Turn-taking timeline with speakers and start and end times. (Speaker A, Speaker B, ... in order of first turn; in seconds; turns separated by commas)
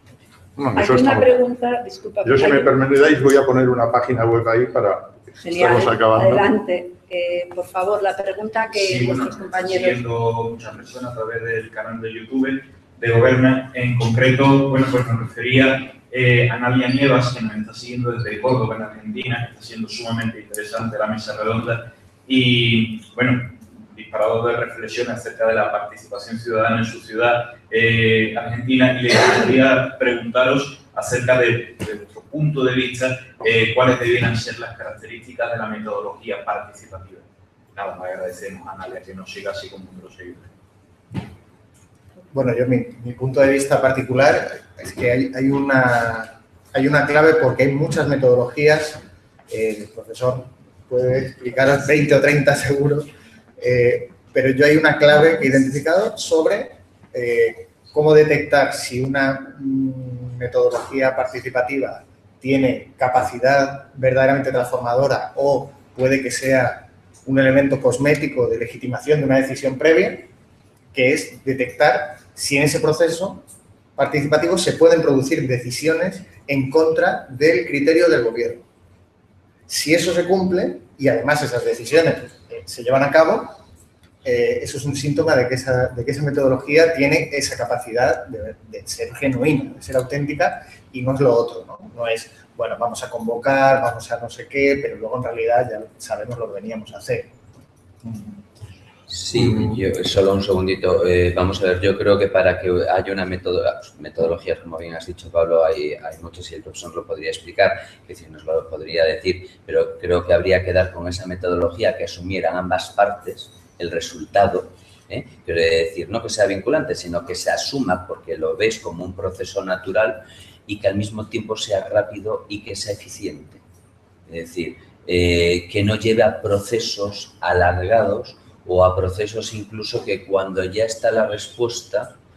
Speaker A: 0.6-1.4, Speaker B: 0.8-2.9, Speaker A: 2.2-6.5, Speaker B: 5.4-10.0, Speaker C: 8.7-40.5, Speaker D: 42.3-70.3, Speaker D: 70.9-78.7, Speaker D: 79.7-83.6, Speaker D: 84.2-97.3, Speaker E: 99.1-123.6, Speaker A: 99.3-99.8, Speaker E: 124.3-132.1